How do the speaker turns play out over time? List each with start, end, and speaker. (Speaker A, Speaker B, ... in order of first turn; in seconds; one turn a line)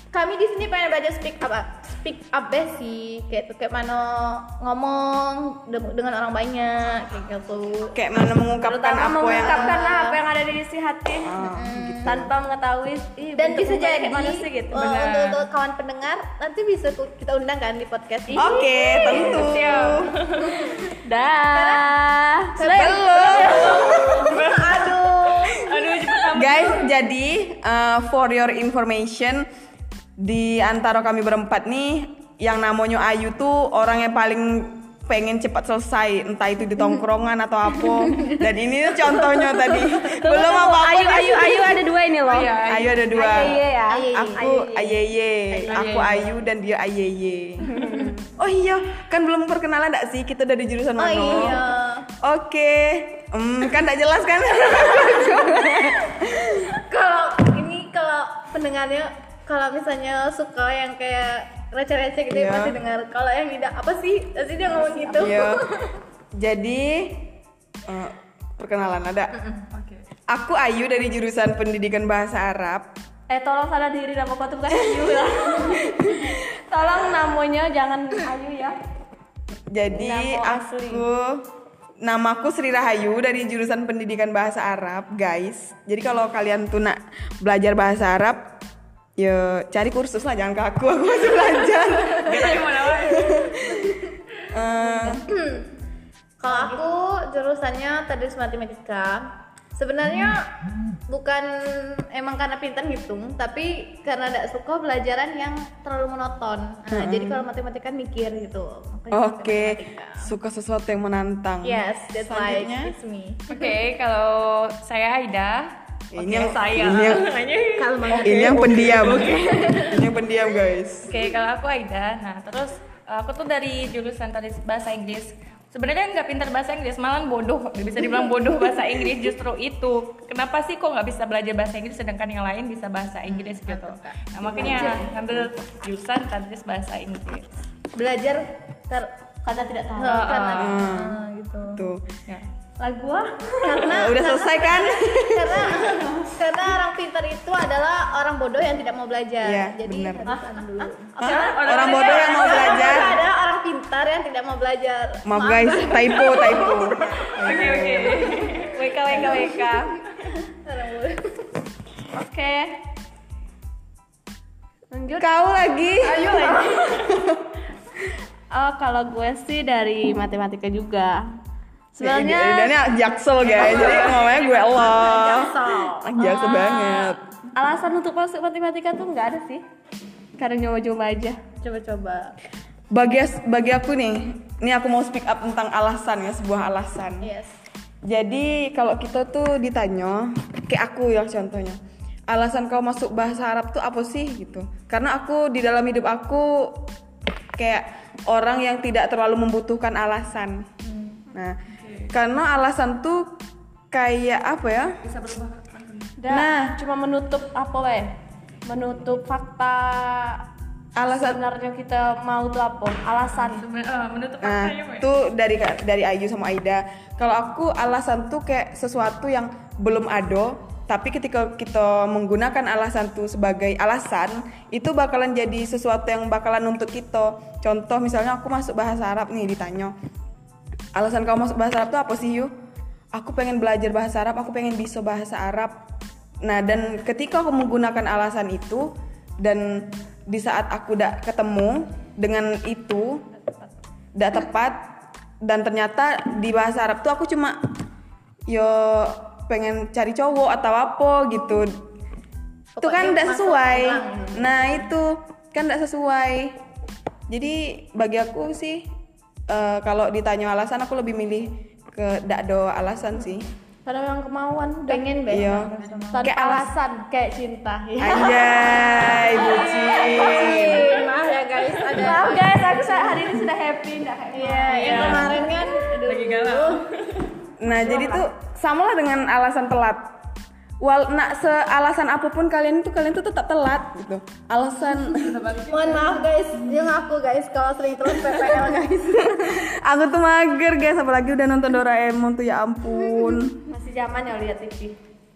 Speaker A: 0.1-8.0
Speaker B: 7.9-9.8
Speaker C: 8.7-11.4
Speaker A: 8.7-10.2
Speaker B: 11.2-12.3
Speaker A: 11.4-12.2
Speaker C: 12.0-14.8
Speaker A: 13.4-20.9
Speaker D: 14.7-15.5
Speaker C: 18.3-19.5
Speaker B: 18.4-20.1
Speaker D: 19.3-20.6
Speaker C: 21.0-23.8
Speaker A: 21.5-21.9
Speaker A: 22.6-25.7
Speaker B: 22.7-24.5
Speaker D: 23.5-26.9
Speaker B: 26.3-29.5
Speaker B: 30.2-41.8
Speaker C: 39.0-42.6
Speaker D: 42.2-43.2
Speaker B: 42.6-51.6
Speaker C: 43.1-45.0
Speaker A: 43.9-44.5
Speaker D: 45.6-46.3
Speaker D: 47.7-48.0
Speaker A: 51.0-52.1
Speaker B: 52.2-56.6
Speaker A: 56.6-65.9
Speaker B: 62.3-62.8
Speaker C: 64.7-65.3
Speaker B: 65.2-65.6
Speaker B: 66.4-69.3
Speaker D: 69.7-70.0
Speaker B: 70.3-72.9
Speaker C: 73.3-78.8
Speaker B: 79.7-81.5
Speaker C: 79.9-81.0
Speaker B: 82.0-88.5
Speaker B: 89.2-95.2
Speaker D: 92.1-93.8
Speaker C: 94.8-95.2
Speaker A: 95.2-95.7
Speaker A: 96.4-100.5
Speaker A: 101.1-110.3
Speaker B: 106.9-107.5
Speaker B: 109.1-112.9
Speaker A: 111.6-113.8
Speaker D: 113.5-119.6
Speaker B: 116.1-117.3
Speaker A: 117.8-120.0
Speaker B: 118.2-121.1
Speaker D: 121.0-137.5
Speaker A: 128.0-128.7
Speaker A: 133.2-135.1
Speaker B: 134.6-134.9
Speaker C: 134.6-135.1
Speaker A: 137.9-139.1
Speaker C: 139.4-140.7
Speaker A: 140.0-141.8
Speaker D: 140.1-140.8
Speaker B: 140.6-142.1
Speaker C: 142.8-144.0
Speaker A: 143.6-156.9
Speaker B: 143.8-146.0
Speaker B: 149.4-150.3
Speaker D: 151.2-153.0
Speaker C: 151.2-151.6
Speaker B: 151.6-153.2
Speaker B: 155.2-158.3
Speaker D: 157.3-158.8
Speaker C: 158.6-160.0
Speaker A: 159.1-159.6
Speaker A: 160.3-161.2
Speaker C: 162.1-162.8
Speaker C: 164.9-167.1
Speaker B: 165.2-167.4
Speaker C: 168.5-171.3
Speaker C: 171.9-172.8
Speaker B: 172.0-177.2
Speaker C: 173.6-174.0
Speaker D: 173.6-175.0
Speaker A: 173.9-176.1
Speaker C: 176.2-179.7
Speaker C: 180.4-181.4
Speaker A: 181.6-182.3
Speaker B: 182.9-187.3
Speaker A: 187.2-187.5
Speaker B: 188.1-191.8
Speaker B: 192.3-196.9
Speaker B: 197.6-200.7
Speaker A: 200.8-201.2
Speaker B: 201.3-201.6
Speaker D: 201.7-202.1
Speaker B: 202.1-203.4
Speaker B: 203.9-205.0
Speaker D: 205.0-206.2
Speaker C: 206.2-208.1
Speaker B: 206.3-206.8
Speaker C: 208.7-210.4
Speaker B: 211.0-211.4
Speaker C: 211.1-213.7
Speaker D: 213.3-215.1
Speaker B: 214.4-229.9
Speaker B: 230.9-232.5
Speaker B: 233.1-235.8
Speaker B: 236.4-243.2
Speaker B: 244.2-244.8
Speaker B: 245.4-247.6
Speaker B: 248.5-251.8
Speaker A: 252.8-254.8
Speaker B: 252.8-256.6
Speaker B: 257.3-258.9
Speaker B: 259.5-263.5
Speaker C: 263.9-265.1
Speaker A: 264.9-266.3
Speaker B: 265.3-266.7
Speaker C: 265.9-271.0
Speaker B: 268.0-270.9
Speaker A: 269.7-273.2
Speaker C: 271.9-275.6
Speaker A: 274.3-276.8
Speaker D: 274.7-275.4
Speaker D: 276.1-277.3
Speaker B: 277.6-280.1
Speaker C: 277.7-278.3
Speaker B: 280.8-285.4
Speaker D: 285.1-286.2
Speaker A: 285.7-289.6
Speaker B: 289.4-293.7
Speaker C: 293.7-295.0